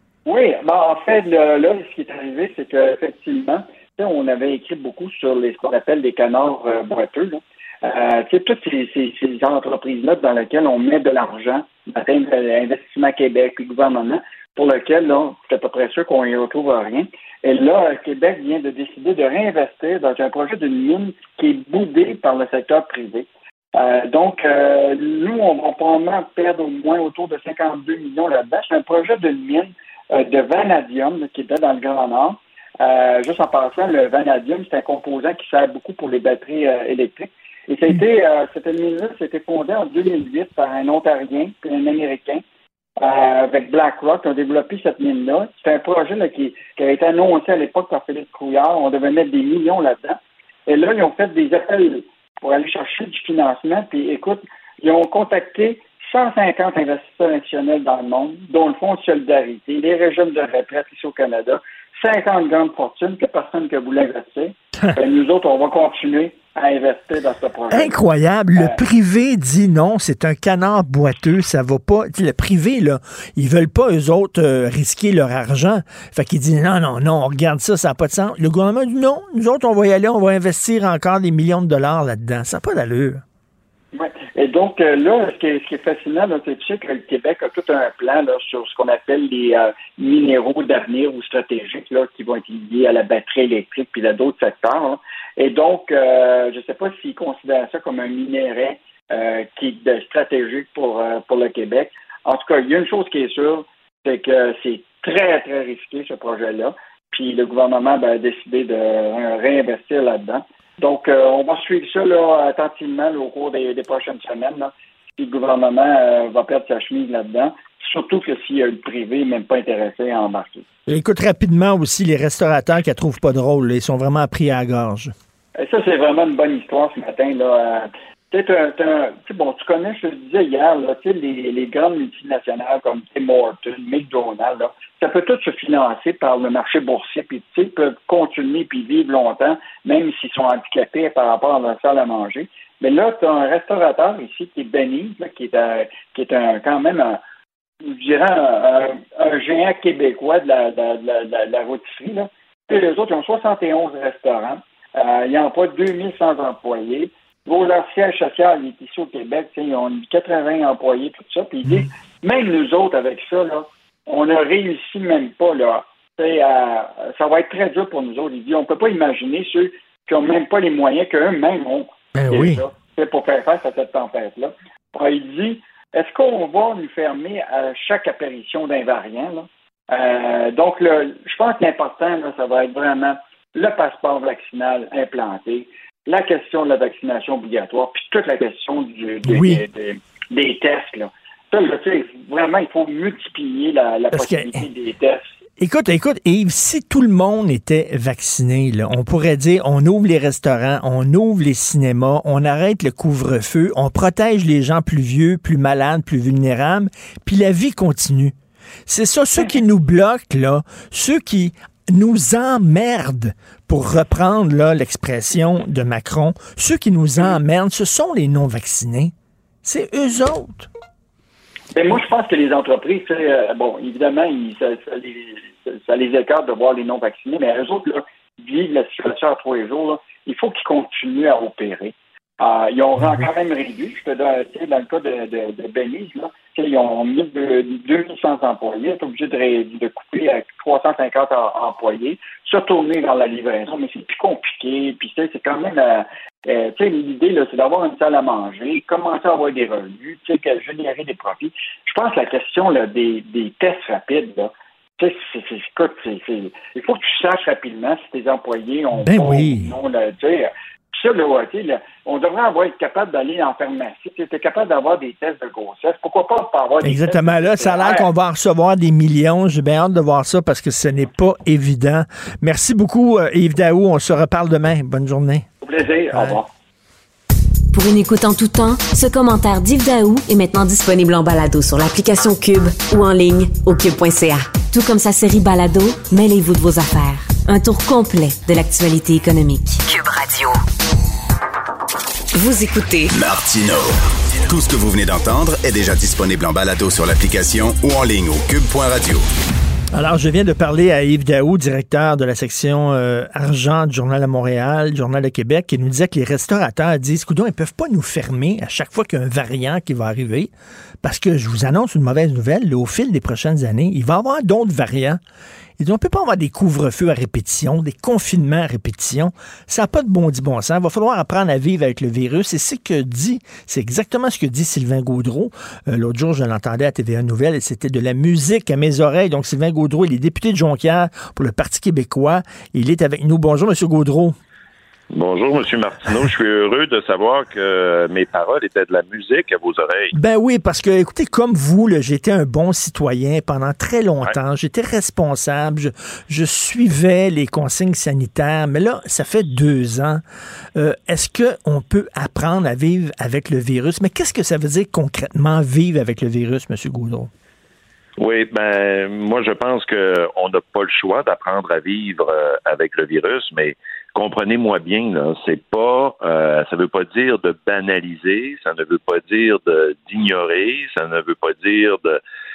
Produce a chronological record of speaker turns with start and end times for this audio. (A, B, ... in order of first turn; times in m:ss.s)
0:00.3-0:42.4 A
0:43.0-1:08.0 A
1:07.7-1:23.2 B
1:23.9-2:00.6 A
2:00.9-2:05.1 B
2:05.6-2:27.2 A
2:27.8-3:15.2 A
2:52.2-2:52.6 B
3:09.3-3:09.6 B
3:14.2-3:14.6 B
3:15.6-3:28.3 B
3:28.9-3:39.1 B
3:39.6-3:40.7 B
3:41.7-4:28.1 A
4:19.0-4:19.7 B
4:26.8-4:35.5 B
4:35.6-4:36.5 A
4:37.7-4:50.6 C
4:52.3-4:53.1 C
4:53.1-4:59.2 D
4:59.9-5:15.2 B
5:15.8-5:34.4 B
5:35.1-5:40.2 E
5:40.2-5:50.2 B
5:50.8-5:57.3 B
5:58.2-6:12.2 E